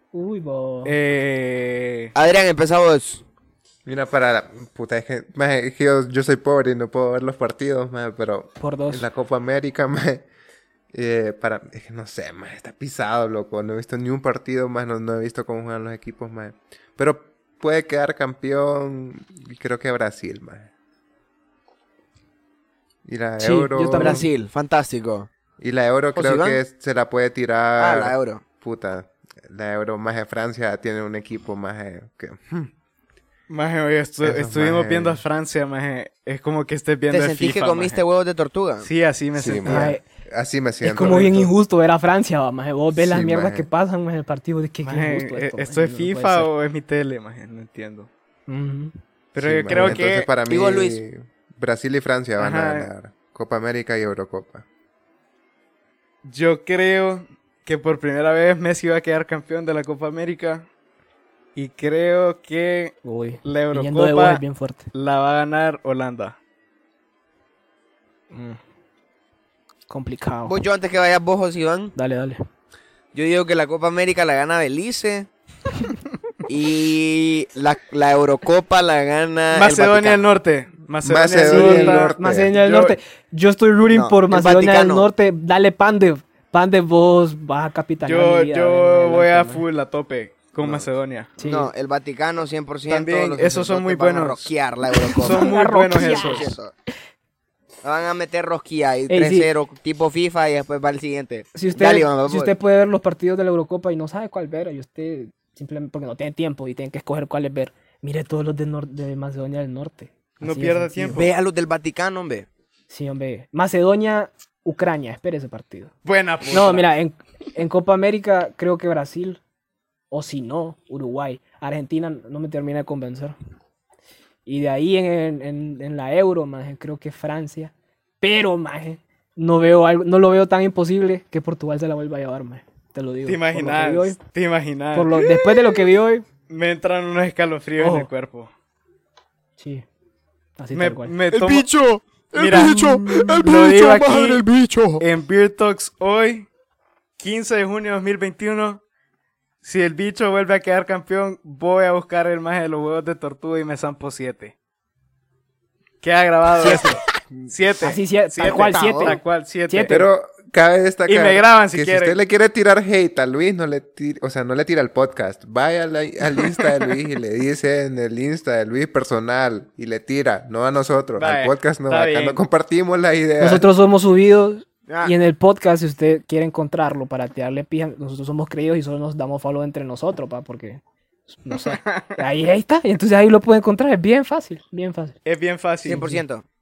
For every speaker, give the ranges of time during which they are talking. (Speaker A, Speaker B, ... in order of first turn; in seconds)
Speaker A: 0.1-0.9, 8.6-9.1, 23.4-24.3, 39.6-40.0, 40.8-46.5, 48.5-48.9, 63.0-64.9, 68.3-68.6, 69.9-70.6, 72.0-72.4, 81.5-89.6, 91.4-91.7, 95.1-96.6, 99.1-99.5, 101.5-111.2, 112.9-115.9, 116.5-119.4, 120.1-123.3, 124.5-134.2, 134.9-136.2, 137.8-138.1, 139.6-139.8, 140.6-141.1, 156.6-157.0, 157.8-160.0, 173.4-185.2
Speaker B: 0.8-2.1, 33.5-38.0, 38.8-39.9, 41.0-41.3, 44.8-48.1, 49.3-50.3, 52.4-52.9, 56.2-60.7, 61.5-66.3, 79.5-83.0, 88.0-91.3, 92.9-94.5, 95.2-96.5, 110.4-111.3, 116.0-116.9, 133.2-135.5, 136.5-138.5, 140.7-141.7, 142.3-144.4, 145.0-146.5, 147.2-148.8, 149.6-154.5, 156.0-156.9, 157.5-160.0, 161.1-162.2, 171.2-172.4, 181.7-182.1, 185.2-186.1
Speaker C: 2.1-3.2, 23.9-25.3, 26.1-26.6, 27.8-28.4, 37.1-38.9, 49.7-51.0, 70.5-71.9, 73.1-75.3, 76.5-80.3, 83.9-85.1, 90.6-90.9, 91.4-96.7, 97.8-102.5, 111.1-112.5, 141.3-145.0, 156.6-157.0, 158.4-159.2, 174.9-175.1, 185.8-186.4
Speaker D: 3.9-10.3, 10.9-20.7, 23.0-24.3, 25.6-32.7, 34.2-35.2, 39.4-41.5, 42.9-43.7, 49.4-54.6, 81.0-82.5, 159.9-173.7